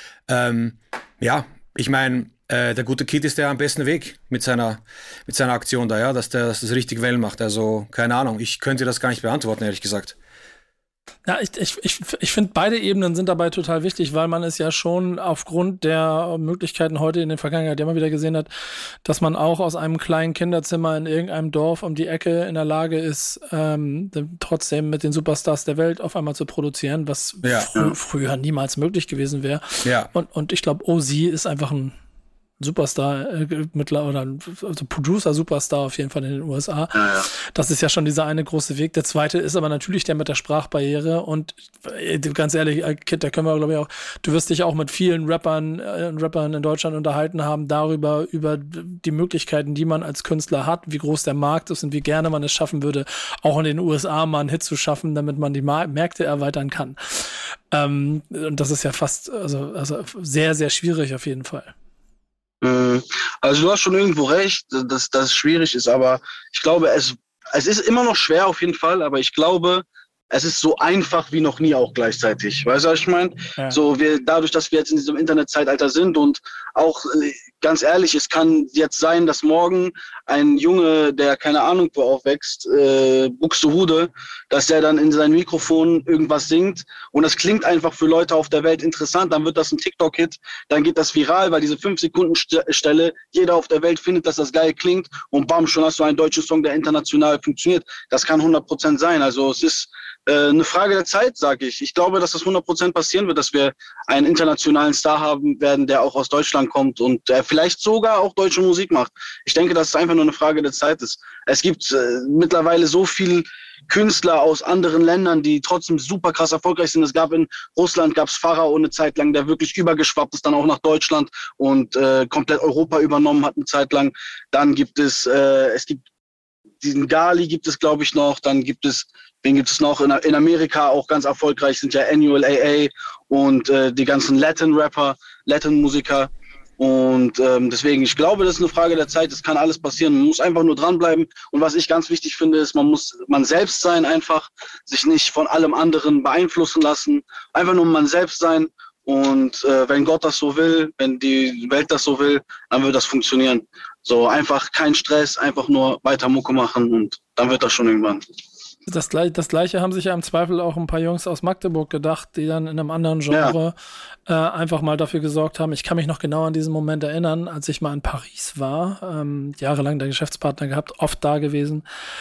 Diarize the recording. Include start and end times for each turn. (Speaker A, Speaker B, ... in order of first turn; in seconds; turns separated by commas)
Speaker A: 0.3-10.1, Speaker B: 11.2-18.5, Speaker B: 19.0-31.9, Speaker A: 27.4-27.7, Speaker A: 29.9-30.1, Speaker B: 32.6-61.7, Speaker C: 37.0-37.3, Speaker C: 62.6-126.0, Speaker C: 126.8-158.2, Speaker B: 158.9-163.8, Speaker C: 163.3-163.6, Speaker B: 164.3-171.8